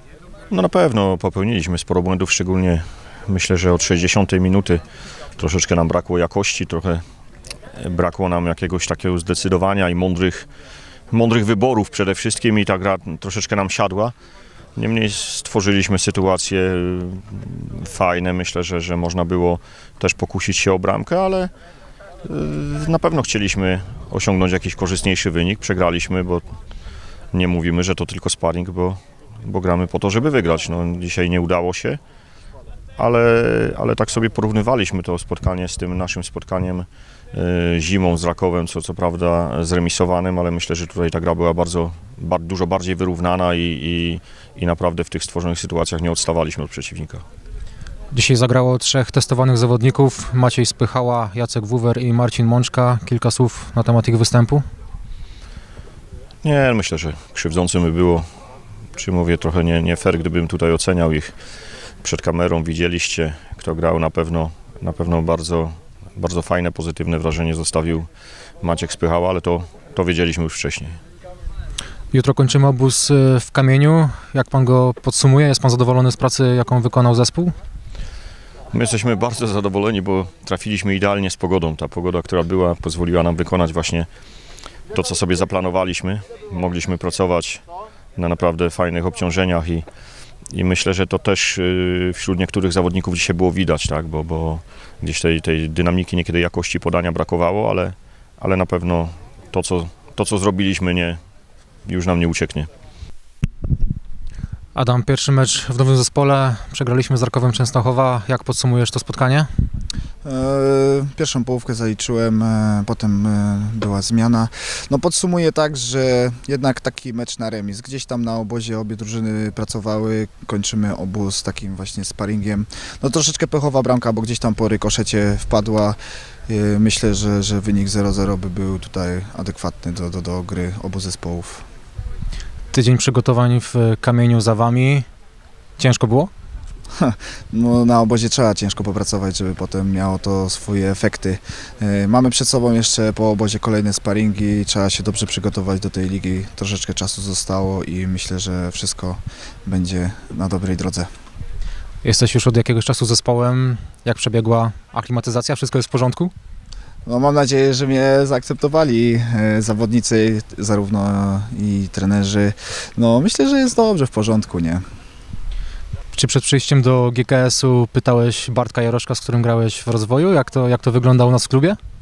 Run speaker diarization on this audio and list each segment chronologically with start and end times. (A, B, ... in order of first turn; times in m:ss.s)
0:00.5-0:04.8 A
0:05.4-0:07.0 A
0:07.8-0:10.5 A
0:11.1-0:14.1 A
0:14.8-0:21.5 A
0:22.2-0:26.4 A
0:27.3-0:32.0 A
0:33.0-0:47.2 A
0:48.1-0:54.6 B
0:56.4-0:58.2 A
0:59.0-1:01.3 A
1:02.0-1:08.1 A
1:08.6-1:11.0 A
1:12.1-1:17.5 B
1:18.7-1:24.1 A
1:24.9-1:27.6 A
1:28.2-1:29.8 A
1:30.5-1:41.2 A
1:41.8-1:42.7 A
1:44.7-1:49.5 B
1:50.2-2:11.6 C
2:12.7-2:15.0 B
2:15.8-2:16.3 B
2:17.0-2:31.1 C
2:32.0-2:36.3 B
2:37.0-2:44.8 C
2:46.1-2:51.8 B